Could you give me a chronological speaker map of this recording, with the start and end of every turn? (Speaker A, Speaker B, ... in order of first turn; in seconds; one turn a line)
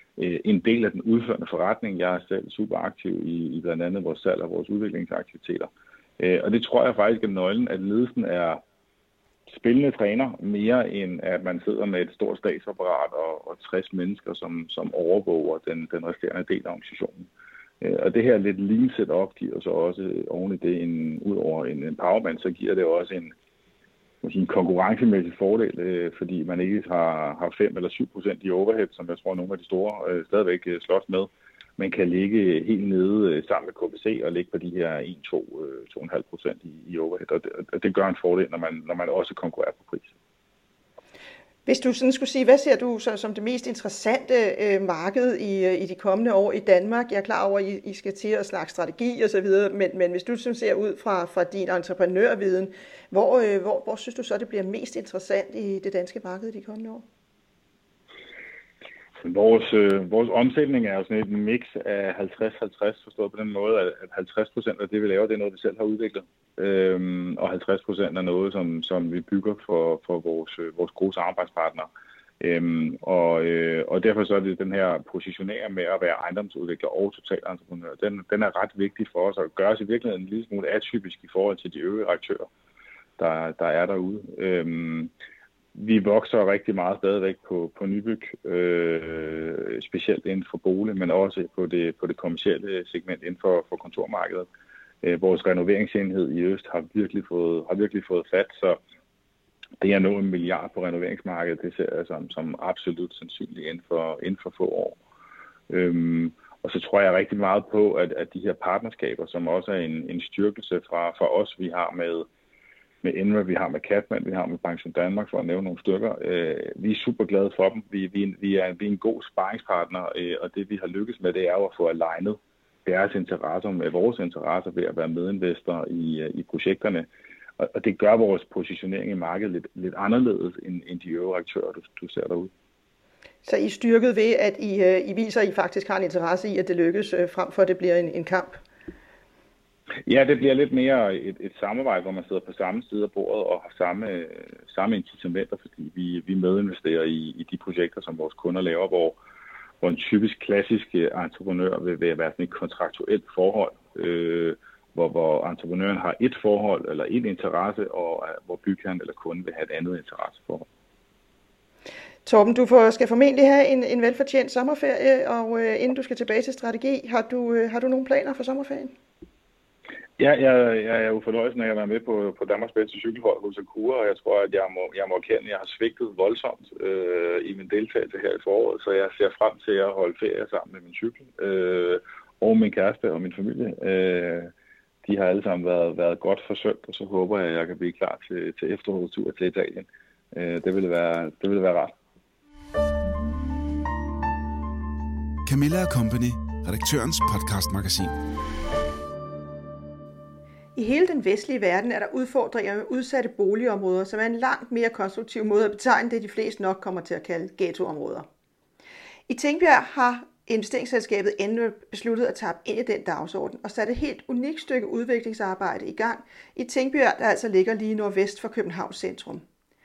Speaker A: 0.2-8.6
Speaker A: 9.5-17.3
Speaker A: 17.8-23.3
Speaker A: 24.2-40.1
Speaker B: 41.7-57.0
Speaker A: 59.2-71.9
Speaker A: 72.4-82.5
Speaker A: 83.2-85.1
Speaker A: 85.8-94.5
Speaker A: 95.0-98.8
Speaker A: 99.8-105.0
Speaker A: 105.7-112.3
Speaker A: 113.0-127.1
Speaker A: 127.6-132.5
Speaker B: 133.4-138.6
Speaker A: 140.1-149.2
Speaker A: 149.8-160.7
Speaker B: 162.2-168.9
Speaker A: 170.2-184.5
Speaker A: 185.0-192.0
Speaker C: 195.5-198.2
Speaker B: 200.8-208.3
Speaker B: 209.3-219.4